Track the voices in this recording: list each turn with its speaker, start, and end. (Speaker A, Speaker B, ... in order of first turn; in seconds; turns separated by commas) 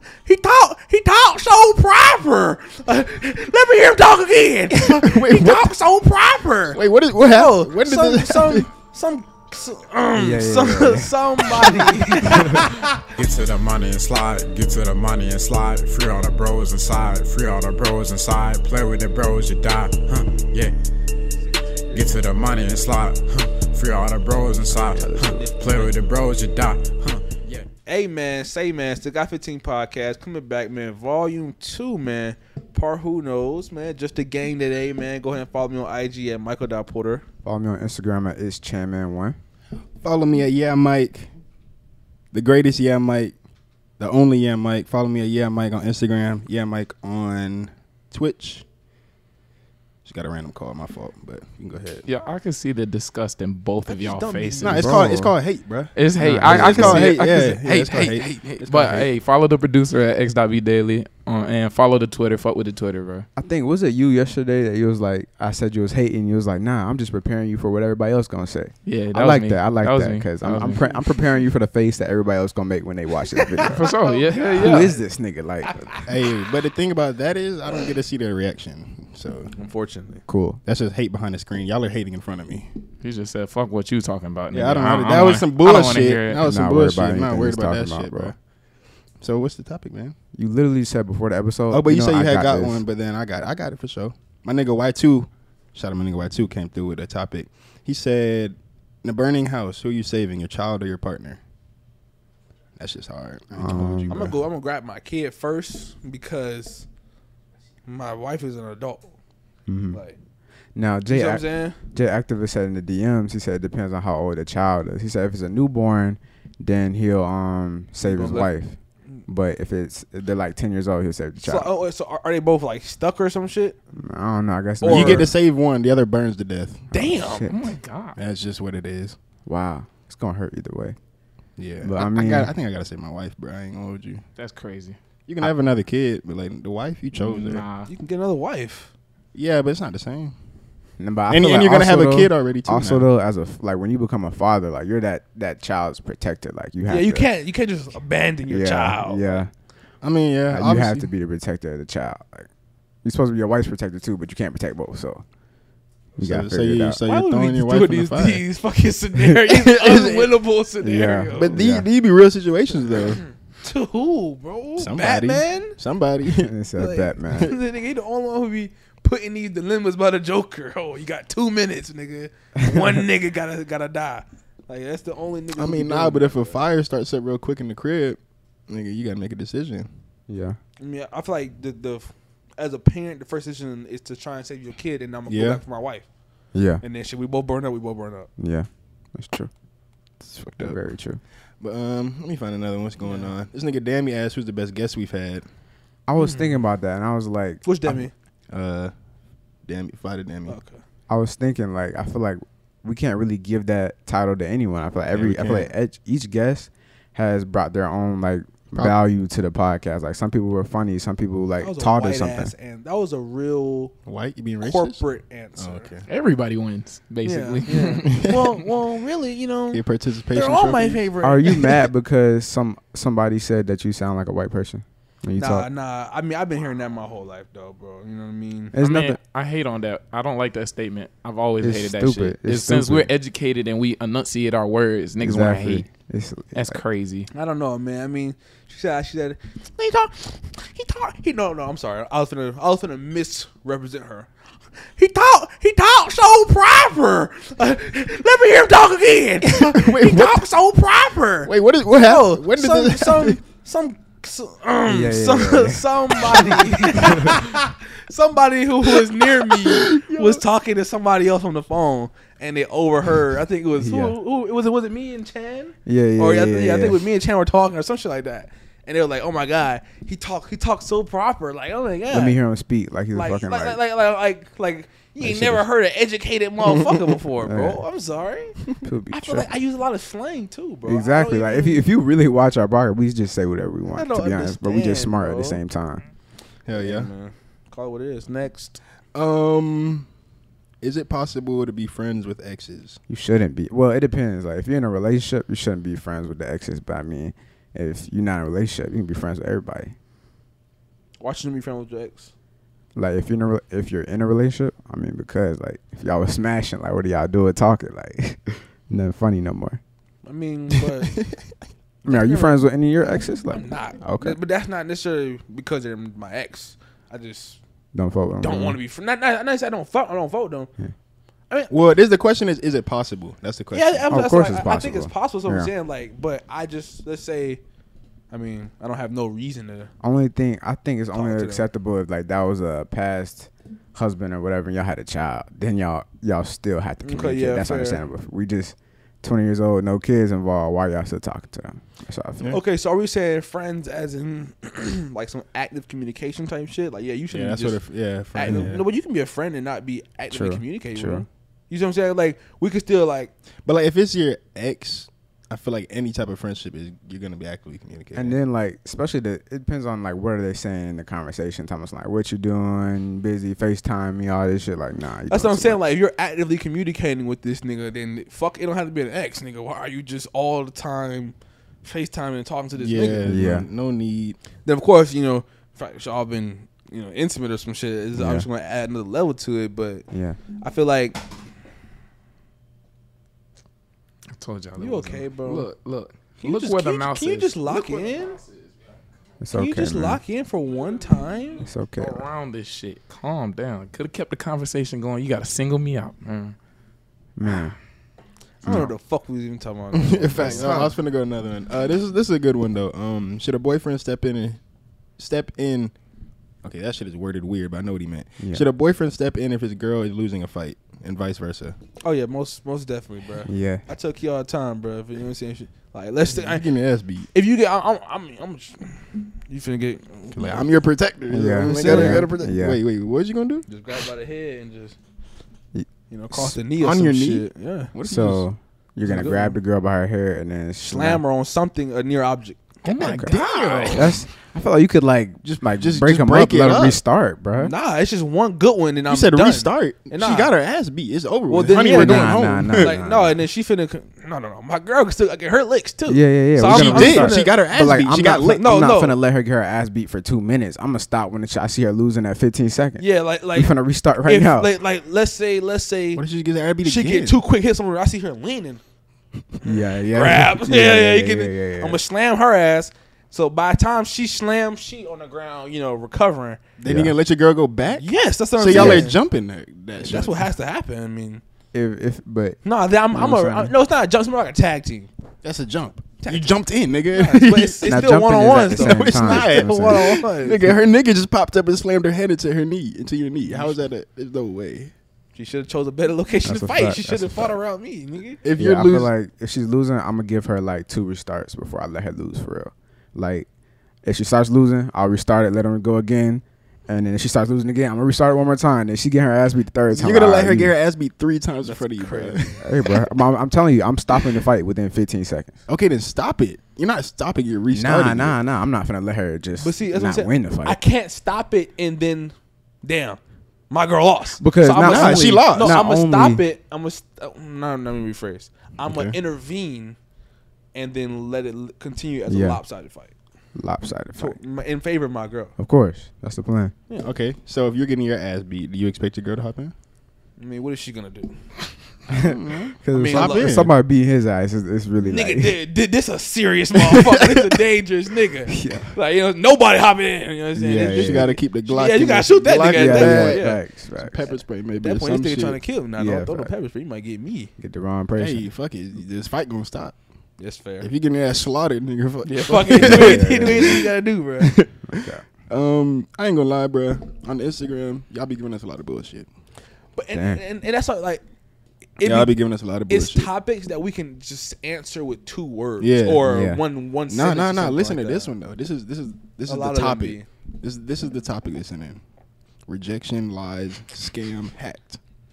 Speaker A: 0.2-13.1, Speaker B: 4.7-5.7, Speaker B: 6.7-8.7, Speaker C: 10.1-11.2, Speaker C: 12.3-12.7, Speaker D: 13.2-20.7, Speaker A: 21.4-22.2, Speaker D: 21.9-27.5, Speaker C: 24.8-25.5, Speaker A: 25.0-26.1, Speaker A: 27.6-37.2, Speaker C: 37.4-39.4, Speaker B: 40.0-41.3, Speaker B: 42.3-43.4, Speaker B: 44.0-48.6, Speaker B: 50.0-52.0, Speaker E: 52.0-55.2, Speaker A: 53.9-54.8, Speaker B: 54.6-59.1, Speaker C: 54.7-55.3, Speaker E: 55.9-63.3, Speaker C: 56.2-57.1, Speaker C: 63.4-73.9, Speaker E: 68.8-70.8, Speaker A: 70.8-71.2, Speaker A: 73.5-75.0, Speaker E: 73.6-75.0, Speaker C: 74.5-76.1, Speaker B: 76.1-79.5, Speaker A: 79.5-80.2, Speaker C: 80.3-80.6, Speaker B: 80.7-82.7, Speaker E: 83.0-86.5, Speaker B: 84.5-88.3, Speaker C: 86.4-88.3, Speaker B: 89.2-90.1, Speaker C: 90.3-92.8, Speaker B: 91.7-101.4, Speaker B: 102.8-104.3, Speaker C: 103.5-104.4, Speaker A: 104.1-106.9, Speaker A: 107.8-109.2, Speaker C: 109.7-110.0, Speaker A: 109.9-110.2, Speaker C: 110.8-118.8, Speaker A: 111.1-111.8, Speaker A: 118.0-118.5, Speaker C: 119.3-121.7, Speaker A: 121.4-123.8, Speaker C: 124.0-125.3, Speaker A: 124.8-125.3, Speaker B: 124.8-126.9, Speaker C: 126.9-127.7, Speaker A: 126.9-127.5, Speaker E: 127.5-128.2, Speaker B: 128.2-129.2, Speaker C: 129.4-130.9, Speaker B: 131.6-134.2, Speaker C: 131.8-132.5, Speaker E: 134.4-135.0, Speaker B: 135.3-137.6, Speaker E: 137.2-137.9, Speaker A: 137.9-138.9, Speaker B: 139.3-140.3, Speaker C: 141.0-147.3, Speaker B: 141.3-143.1, Speaker A: 146.8-149.4, Speaker C: 148.5-149.5, Speaker B: 150.0-151.1, Speaker C: 150.5-152.5, Speaker C: 153.0-155.2, Speaker C: 156.2-157.0, Speaker B: 156.2-158.4, Speaker A: 157.0-161.6, Speaker B: 159.4-160.3, Speaker C: 160.8-161.9, Speaker B: 161.3-163.2, Speaker A: 162.9-165.8, Speaker B: 164.8-166.5, Speaker C: 166.4-167.5, Speaker A: 166.7-176.6, Speaker B: 175.5-179.9, Speaker C: 180.3-180.6, Speaker A: 180.8-186.1, Speaker B: 185.3-185.6, Speaker C: 186.5-186.8, Speaker A: 186.8-188.3, Speaker C: 188.4-189.5, Speaker B: 190.2-190.8, Speaker C: 190.6-191.2, Speaker B: 191.6-195.4, Speaker A: 193.0-193.3, Speaker C: 196.1-198.1, Speaker A: 196.2-196.6, Speaker A: 197.6-198.1, Speaker B: 198.5-198.9, Speaker B: 199.7-200.6, Speaker A: 200.5-200.8, Speaker C: 201.1-212.5, Speaker B: 205.1-205.7, Speaker A: 211.6-213.9, Speaker B: 214.1-215.0, Speaker A: 214.6-215.9, Speaker B: 215.6-216.1, Speaker E: 216.1-218.0, Speaker A: 217.2-221.9, Speaker C: 217.7-217.9, Speaker B: 218.0-218.6, Speaker B: 219.7-221.0, Speaker C: 221.2-225.7, Speaker A: 225.3-228.8, Speaker C: 228.7-229.2, Speaker E: 228.8-235.8, Speaker C: 231.6-233.1, Speaker C: 235.2-236.8, Speaker E: 236.6-237.3, Speaker A: 237.3-244.3, Speaker A: 244.9-272.4, Speaker B: 249.4-250.4, Speaker B: 251.4-253.4, Speaker C: 254.8-257.4, Speaker B: 259.0-260.4, Speaker C: 263.8-264.2, Speaker C: 265.9-267.1, Speaker C: 272.1-273.8, Speaker A: 273.1-278.6, Speaker C: 275.2-275.7, Speaker C: 277.4-277.8, Speaker C: 278.8-279.5, Speaker A: 279.1-281.9, Speaker C: 280.8-286.0, Speaker A: 283.9-285.6, Speaker B: 286.6-287.1, Speaker A: 286.7-288.8, Speaker B: 289.1-290.1, Speaker B: 290.8-293.0, Speaker C: 293.1-299.9, Speaker A: 301.2-302.3, Speaker C: 302.9-309.8, Speaker A: 310.2-311.1, Speaker B: 310.8-311.4, Speaker C: 312.0-314.4, Speaker A: 312.1-317.6, Speaker C: 317.9-318.8, Speaker A: 318.4-320.7, Speaker B: 321.7-324.1, Speaker A: 323.7-327.6, Speaker C: 324.1-325.7, Speaker A: 328.3-329.9, Speaker C: 330.0-342.5, Speaker A: 331.1-331.7, Speaker A: 337.0-338.0, Speaker A: 342.5-347.8, Speaker B: 347.3-348.8, Speaker A: 348.3-353.3, Speaker C: 350.3-351.2, Speaker B: 353.6-358.4, Speaker C: 358.1-365.8, Speaker A: 365.3-373.4, Speaker B: 372.8-374.4, Speaker C: 373.2-373.7, Speaker A: 374.6-380.0, Speaker C: 378.1-378.4, Speaker C: 380.1-380.4, Speaker A: 380.6-381.2, Speaker E: 384.4-388.1, Speaker A: 384.8-385.7, Speaker A: 386.4-388.4, Speaker C: 389.4-390.2, Speaker A: 389.5-391.7, Speaker C: 391.6-392.3, Speaker E: 391.9-396.6, Speaker C: 397.4-397.8, Speaker A: 398.6-400.9, Speaker C: 398.6-398.9, Speaker B: 399.9-404.6, Speaker B: 405.2-405.9, Speaker B: 406.6-411.8, Speaker C: 408.4-408.6, Speaker A: 412.0-416.6, Speaker C: 413.5-413.8, Speaker B: 416.3-417.3, Speaker A: 417.3-420.6, Speaker B: 420.3-423.6, Speaker C: 421.3-422.8, Speaker A: 421.6-422.3, Speaker A: 423.7-425.0, Speaker C: 425.7-426.6, Speaker A: 426.1-427.9, Speaker B: 426.8-428.5, Speaker C: 428.0-431.2, Speaker A: 429.0-429.6, Speaker A: 430.8-434.1, Speaker E: 432.8-434.2, Speaker C: 433.0-433.4, Speaker B: 433.5-433.9, Speaker C: 433.9-437.7, Speaker B: 435.4-437.0, Speaker A: 437.6-440.5, Speaker B: 439.1-443.0, Speaker A: 441.5-447.5, Speaker C: 441.8-443.4, Speaker C: 446.1-454.7, Speaker B: 446.6-448.8, Speaker A: 448.6-449.2, Speaker A: 453.0-456.2, Speaker B: 456.1-457.4, Speaker A: 456.8-458.8, Speaker C: 459.6-462.0, Speaker A: 459.6-466.6, Speaker B: 466.8-470.5, Speaker C: 466.9-467.1, Speaker A: 467.9-469.2, Speaker C: 468.6-469.1, Speaker A: 470.0-471.4, Speaker C: 471.7-472.6, Speaker A: 472.6-475.1, Speaker C: 473.1-473.7, Speaker B: 475.4-484.9, Speaker A: 476.2-476.5, Speaker A: 477.1-480.7, Speaker C: 477.8-480.2, Speaker A: 483.5-483.8, Speaker A: 485.3-488.4, Speaker C: 486.4-487.6, Speaker B: 488.4-489.1, Speaker C: 488.6-493.5, Speaker C: 494.0-500.7, Speaker B: 499.9-503.0, Speaker A: 501.6-502.6, Speaker C: 502.6-505.6, Speaker B: 505.7-508.4, Speaker C: 507.7-510.8, Speaker A: 509.6-520.0, Speaker C: 514.4-516.4, Speaker B: 514.8-515.8, Speaker B: 518.8-519.1, Speaker A: 520.7-523.1, Speaker C: 522.3-522.6, Speaker C: 523.5-524.4, Speaker A: 524.2-525.5, Speaker C: 525.6-526.7, Speaker B: 527.0-529.7, Speaker A: 530.4-531.4, Speaker B: 532.1-533.7, Speaker C: 532.1-535.6, Speaker A: 532.9-533.7, Speaker A: 535.0-543.6, Speaker B: 536.9-537.5, Speaker C: 538.5-538.9, Speaker C: 540.5-541.3, Speaker B: 540.9-545.6, Speaker C: 542.6-544.3, Speaker A: 544.3-547.5, Speaker C: 546.0-546.5, Speaker C: 547.6-548.5, Speaker B: 548.2-550.0, Speaker A: 550.4-550.9, Speaker B: 550.8-559.3, Speaker A: 552.3-554.5, Speaker C: 552.6-553.9, Speaker C: 554.8-555.2, Speaker A: 559.9-561.2, Speaker C: 560.1-560.4, Speaker A: 562.0-562.4, Speaker B: 562.0-563.3, Speaker A: 562.9-568.3, Speaker B: 565.8-566.3, Speaker C: 566.2-566.6, Speaker B: 567.1-572.0, Speaker A: 569.5-570.3, Speaker B: 572.7-575.0